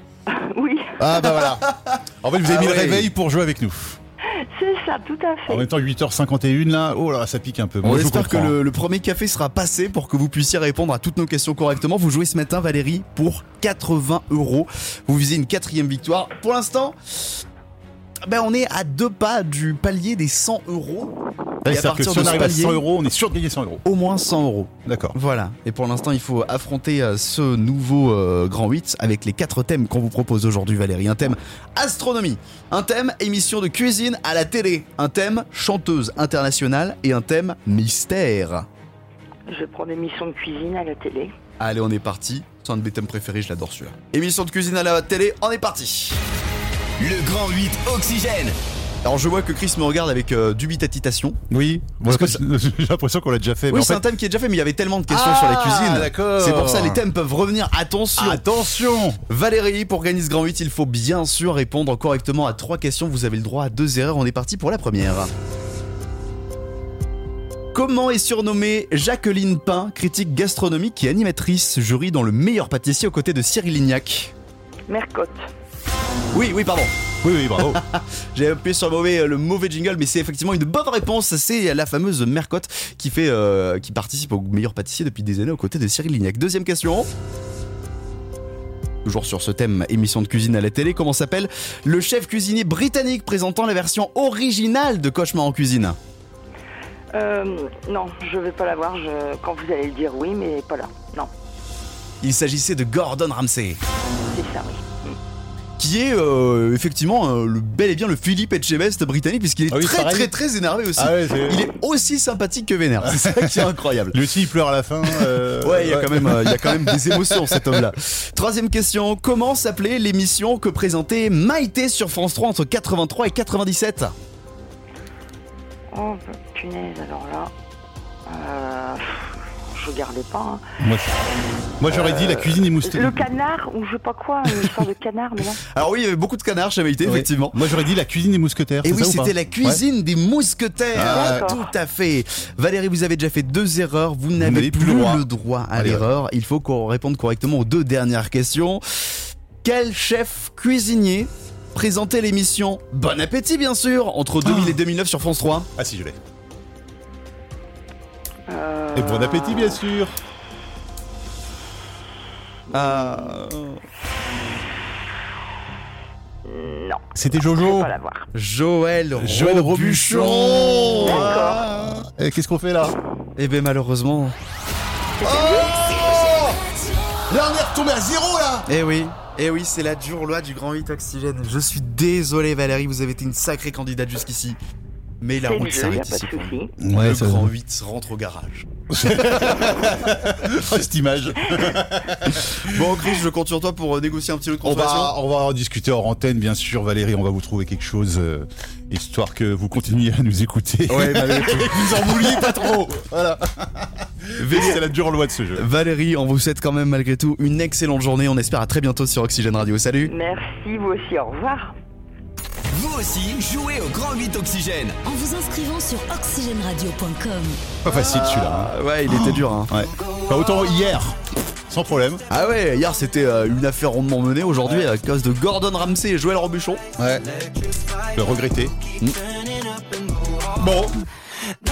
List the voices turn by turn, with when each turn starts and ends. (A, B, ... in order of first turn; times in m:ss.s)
0:00.3-0:01.2 A
0:01.0-0:01.7 B
0:01.4-0:03.1 C
0:02.2-0:04.0 B
0:04.3-0:05.6 A
0:05.5-0:08.6 B
0:07.8-0:17.4 C
0:18.2-0:21.1 C
0:21.6-0:23.8 B
0:21.6-0:22.8 C
0:23.8-0:38.6 C
0:24.8-0:25.2 B
0:39.5-0:41.3 A
0:41.6-0:46.2 C
0:47.0-0:48.6 D
0:49.0-0:51.4 C
0:51.5-0:54.0 B
0:52.0-0:52.4 C
0:53.7-0:58.4 C
0:55.1-0:57.0 B
0:58.2-0:59.2 B
0:59.3-1:05.3 C
1:07.7-1:14.3 C
1:14.9-1:15.5 A
1:16.3-1:16.9 C
1:17.2-1:17.8 B
1:17.6-1:27.1 C
1:29.0-1:36.0 C
1:37.1-1:41.3 A
1:42.2-1:43.8 C
1:44.3-1:44.8 A
1:45.8-1:54.2 C
1:49.7-1:50.4 B
1:51.0-1:51.6 B
1:53.0-1:57.6 B
1:55.1-2:04.1 C
2:05.9-2:07.5 A
2:08.3-2:10.6 A
2:10.8-2:11.1 B
2:11.8-2:13.2 B
2:11.9-2:15.6 A
2:15.6-2:17.6 C
2:17.0-2:19.8 B
2:18.8-2:29.0 C
2:20.9-2:21.5 B
2:21.1-2:21.7 A
2:24.4-2:26.1 B
2:29.6-2:35.7 C
2:34.4-2:34.8 B
2:35.8-2:36.2 B
2:38.5-2:39.8 A
2:38.9-2:40.2 B
2:42.7-2:43.8 C
2:42.8-2:43.4 A
2:46.4-2:48.3 A
2:47.1-2:47.9 B
2:48.3-2:51.8 C
2:49.2-2:53.0 B
2:51.0-2:51.7 A
2:53.4-2:54.3 C
2:55.2-2:55.8 A
2:55.2-2:56.6 C
2:57.3-2:58.6 B
2:58.6-3:04.6 C
3:05.2-3:09.7 C
3:05.4-3:06.7 A
3:06.8-3:07.5 B
3:08.9-3:12.9 B
3:12.3-3:15.2 C
3:14.6-3:25.7 B
3:20.9-3:22.9 C
3:24.4-3:24.9 C
3:25.6-3:30.1 C
3:30.0-3:31.7 A
3:32.7-3:35.0 D
3:35.0-3:37.7 E
3:37.8-3:41.2 B
3:37.8-3:39.7 C
3:41.7-3:42.2 B
3:42.3-3:46.8 C
3:47.0-3:47.2 B
3:48.1-3:48.8 B
3:50.6-3:50.9 C